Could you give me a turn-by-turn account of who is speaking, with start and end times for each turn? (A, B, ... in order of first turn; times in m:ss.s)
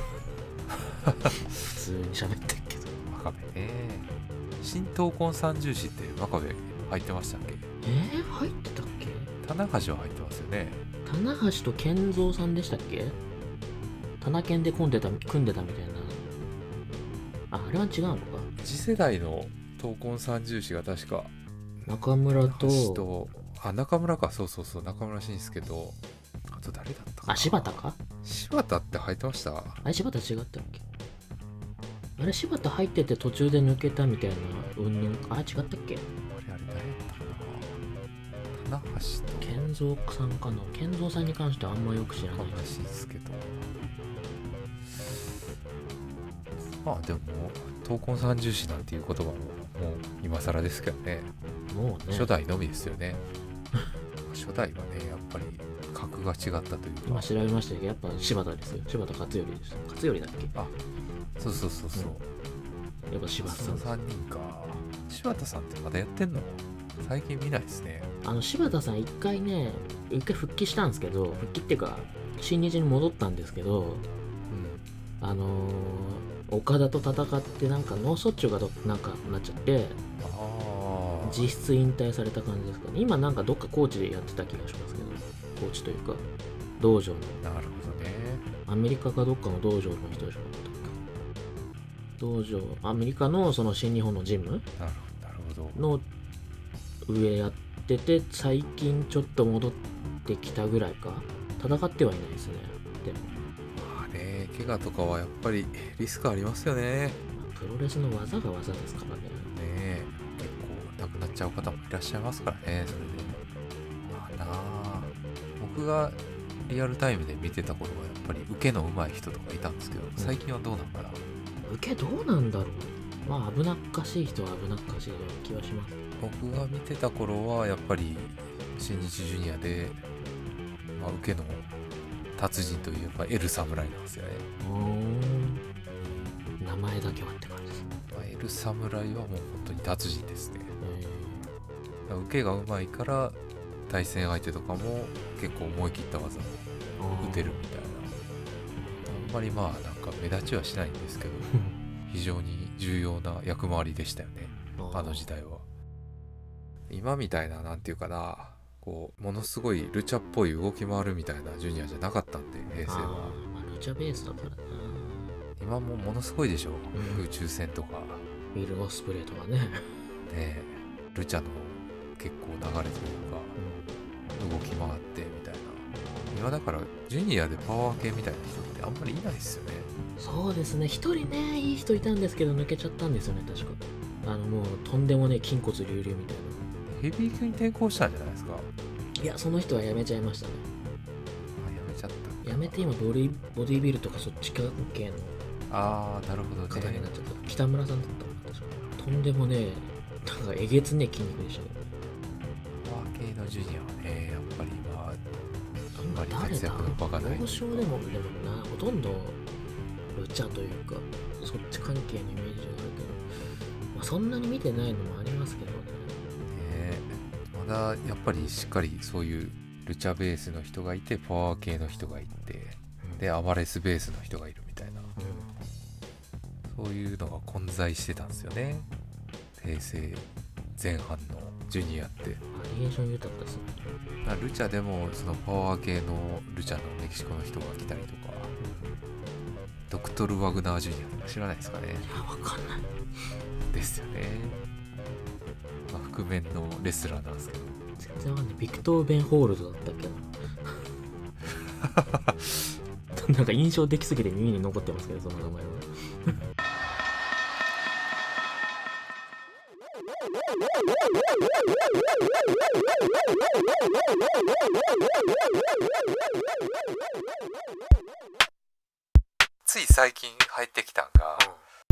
0:01.0-0:01.3 A
0:01.3-0:03.0 B
0:03.0-0:07.6 A
0:07.8-0:09.3 B
0:09.4-0:10.8 A
0:11.0-0:13.2 B
0:14.2-0:16.3 B
0:17.5-0:18.5 B
0:18.6-0:21.3 A
0:21.8-0:23.1 B
0:22.3-0:26.0 A
0:26.5-0:29.8 A
0:27.2-0:28.0 B
0:29.8-0:30.8 B
0:32.2-0:36.1 B
0:36.3-0:37.8 A
0:38.6-0:39.6 A
0:39.4-0:42.7 B
0:42.1-0:43.6 A
0:46.7-0:51.3 A
0:51.7-0:52.3 B
0:52.1-0:53.2 A
0:54.3-0:57.3 A
0:57.0-1:00.6 B
1:01.4-1:02.2 A
1:03.1-1:04.0 B
1:03.4-1:08.1 A
1:08.2-1:14.1 B
1:14.5-1:14.8 A
1:15.2-1:20.0 B
1:20.2-1:21.5 A
1:21.2-1:26.3 B
1:26.8-1:27.4 B
1:27.4-1:28.5 A
1:28.6-1:31.0 B
1:32.2-1:34.7 B
1:34.8-1:35.8 A
1:35.7-1:36.1 B
1:37.0-1:43.3 B
1:43.8-1:47.2 A
1:47.4-1:49.5 B
1:49.5-1:53.4 A
1:53.0-1:53.4 B
1:54.1-2:01.2 A
2:01.6-2:06.0 B
2:06.2-2:10.0 A
2:10.8-2:11.7 A
2:12.4-2:14.4 A
2:14.6-2:15.6 B
2:16.0-2:16.3 A
2:16.6-2:17.9 B
2:18.1-2:20.7 A
2:20.8-2:21.5 B
2:22.1-2:23.4 A
2:23.9-2:26.6 A
2:27.0-2:27.6 B
2:27.2-2:28.1 A
2:28.9-2:29.3 B
2:29.0-2:31.5 A
2:31.5-2:31.8 B
2:32.0-2:35.6 A
2:34.8-2:35.3 B
2:36.9-2:43.4 A
2:42.8-2:45.4 B
2:45.6-2:48.2 A
2:46.9-2:47.2 B
2:48.5-2:50.0 B
2:50.3-2:53.6 A
2:53.6-2:53.9 B
2:54.4-2:59.9 A
3:00.2-3:06.7 B
3:06.9-3:08.7 A
3:09.2-3:10.6 B
3:11.6-3:12.8 A
3:12.4-3:15.4 B
3:15.7-3:17.1 A
3:16.7-3:21.9 B
3:22.8-3:25.2 A
3:26.0-3:29.4 B
3:26.1-3:28.0 A
3:30.1-3:33.2 B
3:33.9-3:36.2 B
3:36.5-3:45.1 A
3:45.2-3:45.5 B
3:46.7-3:48.9 A
3:49.6-3:50.2 A
3:50.8-3:52.4 A
3:52.5-3:53.8 B
3:54.2-3:58.5 A
3:58.6-3:59.0 B
3:59.9-4:02.1 A
4:02.0-4:02.9 B
4:03.7-4:04.6 A
4:05.9-4:07.8 A
4:08.0-4:10.3 B
4:13.1-4:16.4 B
4:29.6-4:31.5 A
4:31.4-4:31.7 B